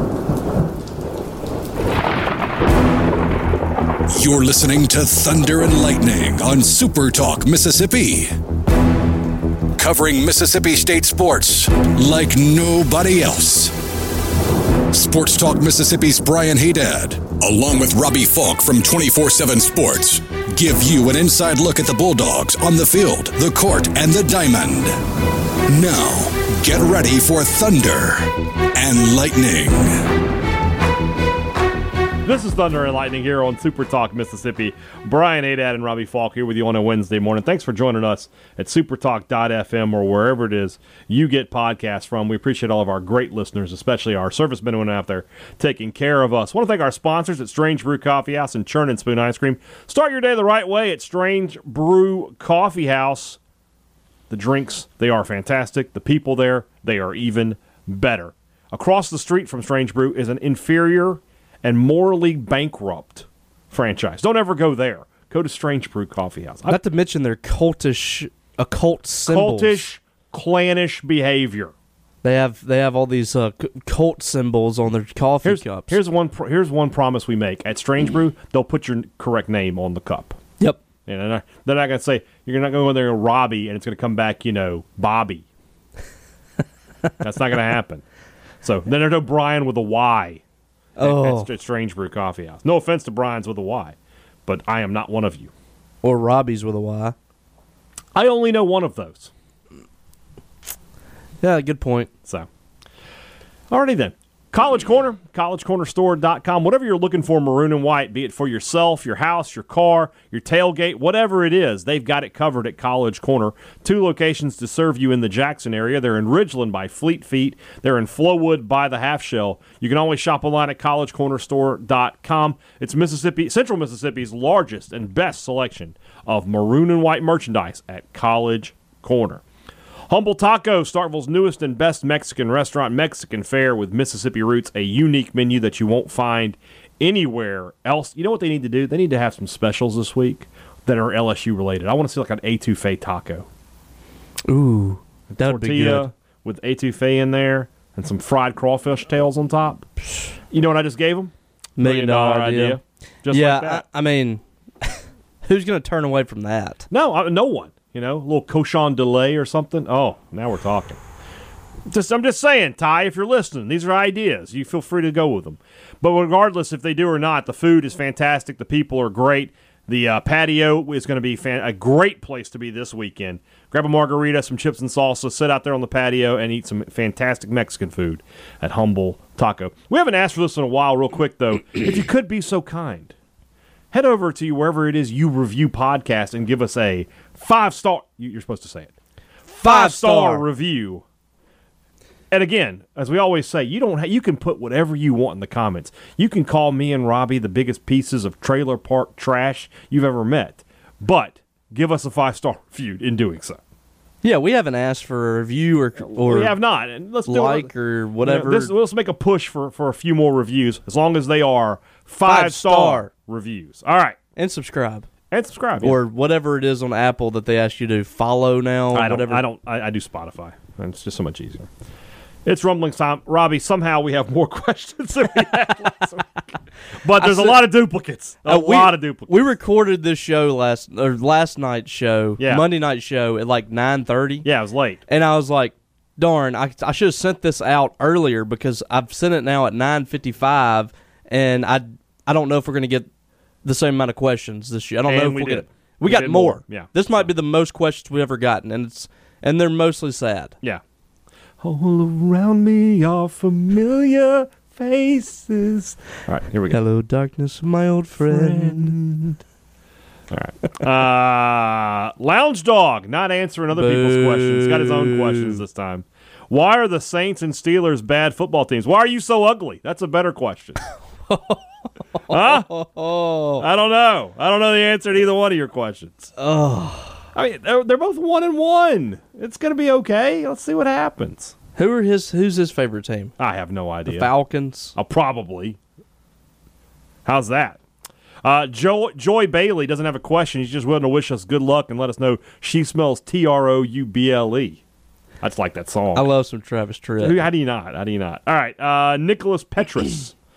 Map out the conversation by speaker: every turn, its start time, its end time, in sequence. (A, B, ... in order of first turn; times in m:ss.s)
0:04.1-0:08.3 A
0:09.8-0:13.8 A
0:14.9-0:25.0 A
0:25.7-0:30.1 A
0:32.2-0:53.4 B
0:54.3-1:06.8 B
1:06.7-1:09.8 C
1:09.3-1:11.7 B
1:12.2-1:16.0 C
1:15.4-1:20.4 B
1:21.1-1:25.5 B
1:27.2-1:28.0 B
1:28.6-1:30.4 B
1:31.0-1:31.5 C
1:31.0-1:35.5 B
1:36.0-1:37.2 C
1:38.1-1:39.3 B
1:41.4-1:42.1 C
1:43.7-2:09.4 B
2:10.1-2:23.5 B
2:24.5-2:26.1 C
2:25.3-2:29.8 B
2:30.5-2:33.8 B
2:31.8-2:36.9 C
2:36.9-2:41.0 B
2:41.9-3:03.1 B
3:03.9-3:08.9 B
3:09.5-3:10.5 C
3:09.5-3:11.0 B
3:12.3-3:23.6 B
3:24.2-3:26.6 C
3:26.0-3:27.7 B
3:27.3-3:28.7 C
3:28.2-3:34.2 B
3:32.2-3:33.1 C
3:34.4-3:35.1 C
3:35.3-3:36.0 B
3:35.8-3:39.4 C
3:38.9-3:41.7 B
3:42.4-3:49.5 B
3:47.2-3:47.6 C
3:48.4-3:54.5 C
3:52.4-3:52.6 B
3:54.4-3:55.0 B
3:55.1-4:03.1 C
4:03.6-4:10.6 C
4:05.1-4:07.3 B
4:11.6-4:16.8 B
4:16.7-4:19.0 C
4:18.2-4:19.4 B
4:20.3-4:30.8 B
4:23.7-4:25.6 C
4:31.3-4:31.6 C
4:32.3-4:32.7 B
4:32.3-4:33.6 C
4:33.6-4:36.3 B
4:36.4-4:37.2 C
4:37.4-4:41.6 B
4:41.8-4:43.3 C
4:43.4-4:44.3 B
4:44.1-4:45.0 C
4:45.0-4:45.8 B
4:47.2-4:47.8 B
4:48.4-4:54.8 B
4:55.4-4:56.3 B
4:56.1-4:57.4 C
4:57.2-5:00.3 B